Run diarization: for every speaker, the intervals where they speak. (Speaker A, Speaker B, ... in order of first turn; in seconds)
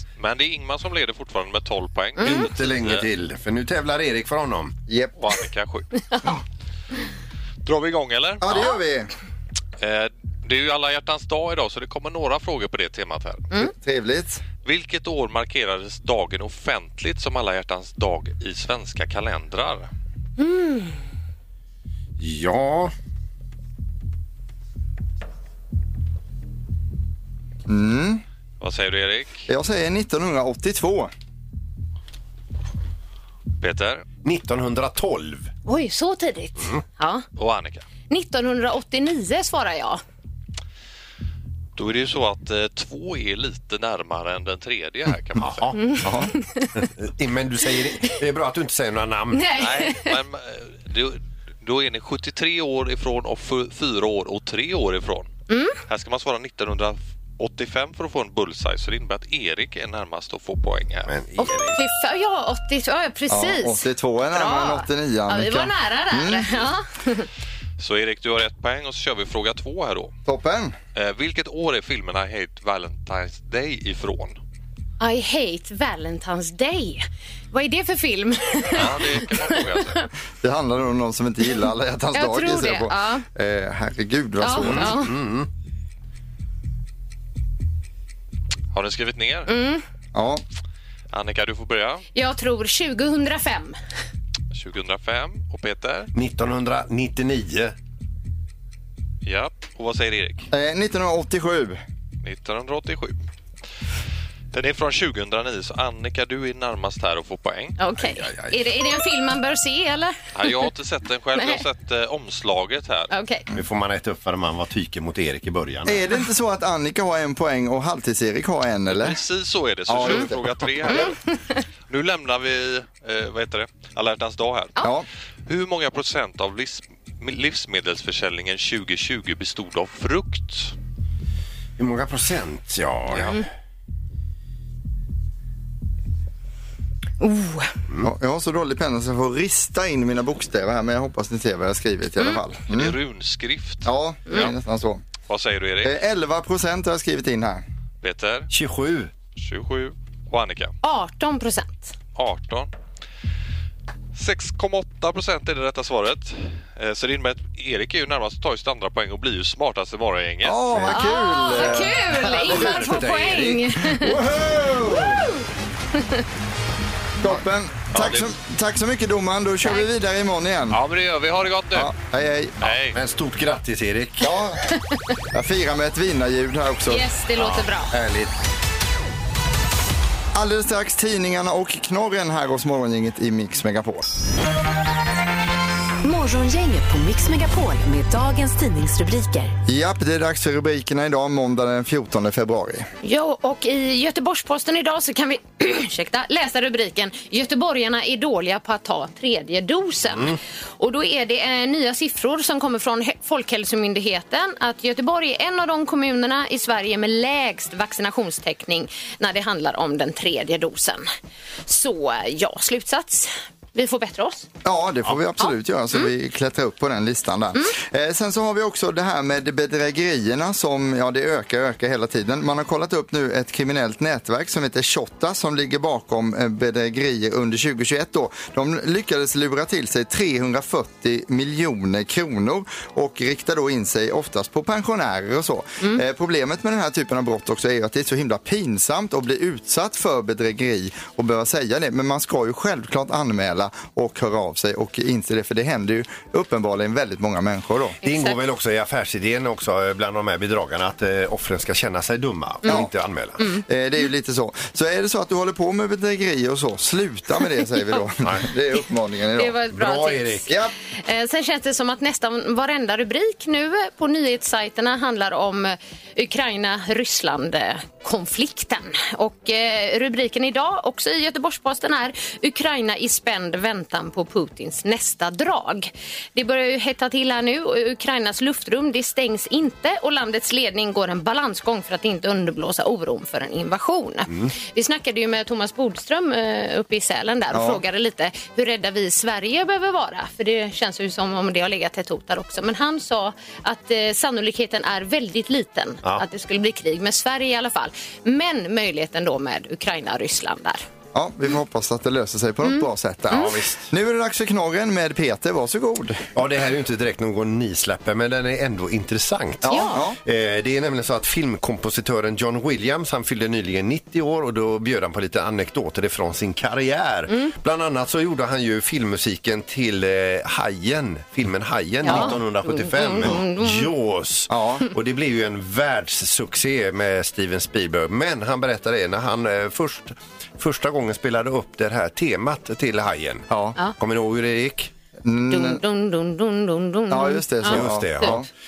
Speaker A: 0.2-3.1, 5.2-5.9, 7.6-8.6, 9.8-13.5, 14.6-19.9, 28.6-29.5, 33.6-34.0, 37.4-37.8, 41.8-45.7, 49.6-55.3, 55.9-61.1, 67.8-70.1, 70.9-74.4, 78.7-80.0, 88.7-89.5, 91.1-92.0, 94.5-96.1, 99.2-100.5, 102.2-103.2, 104.5-107.8, 110.3-113.1, 118.9-121.2, 121.9-124.8, 125.5-130.7, 133.1-133.4, 142.7-144.5, 145.2-145.9, 148.0-148.5, 149.3-150.7, 152.1-152.7, 154.1-160.7, 170.7-171.9, 172.6-173.0
Speaker B: 2.2-2.5, 20.4-20.9, 35.6-37.2, 38.1-40.0, 45.8-46.7, 49.3-50.2, 55.5-55.8, 61.4-67.3, 75.0-80.0, 82.1-83.2, 84.4-85.1, 89.5-89.8, 92.1-93.8, 107.8-110.6, 111.3-111.6, 113.1-113.4, 120.9-121.2, 137.2-137.7, 150.8-151.9, 160.8-164.1, 164.9-165.4, 165.9-166.2, 176.9-177.9, 193.0-211.1, 211.7-214.5, 215.4-216.1, 248.0-248.4, 259.4-300.8, 302.6-303.5, 309.7-310.0, 322.0-323.9, 335.5-338.4
Speaker C: 2.2-4.7, 22.2-22.9, 34.2-35.5, 45.4-46.1, 46.8-49.5, 61.1-61.8, 84.6-85.5, 96.1-97.7, 108.0-108.6, 113.5-116.0, 131.8-133.4, 148.5-149.1, 162.2-163.8, 172.9-174.3, 177.4-178.3, 248.0-253.4, 259.7-260.5, 303.3-303.9, 306.3-334.9, 337.7-338.5
Speaker D: 4.9-5.3, 8.4-9.1, 13.6-14.4, 27.7-28.2, 29.5-31.1, 46.0-46.3, 63.3-66.5, 70.2-70.7, 80.4-85.0, 90.1-90.4, 100.5-101.8, 115.8-119.2, 119.9-121.0, 138.0-142.9, 143.8-145.0, 145.8-147.6, 160.4-162.7, 163.9-165.2, 167.2-170.8, 171.7-172.5, 174.2-174.6, 175.3-177.0, 180.3-184.1, 189.7-192.9, 214.6-248.0, 253.7-259.5, 287.5-287.8, 301.1-306.2, 309.6-310.2, 322.1-322.4, 324.5-324.8, 333.5-333.8, 335.2-335.8, 337.1-338.5
Speaker E: 186.0-189.5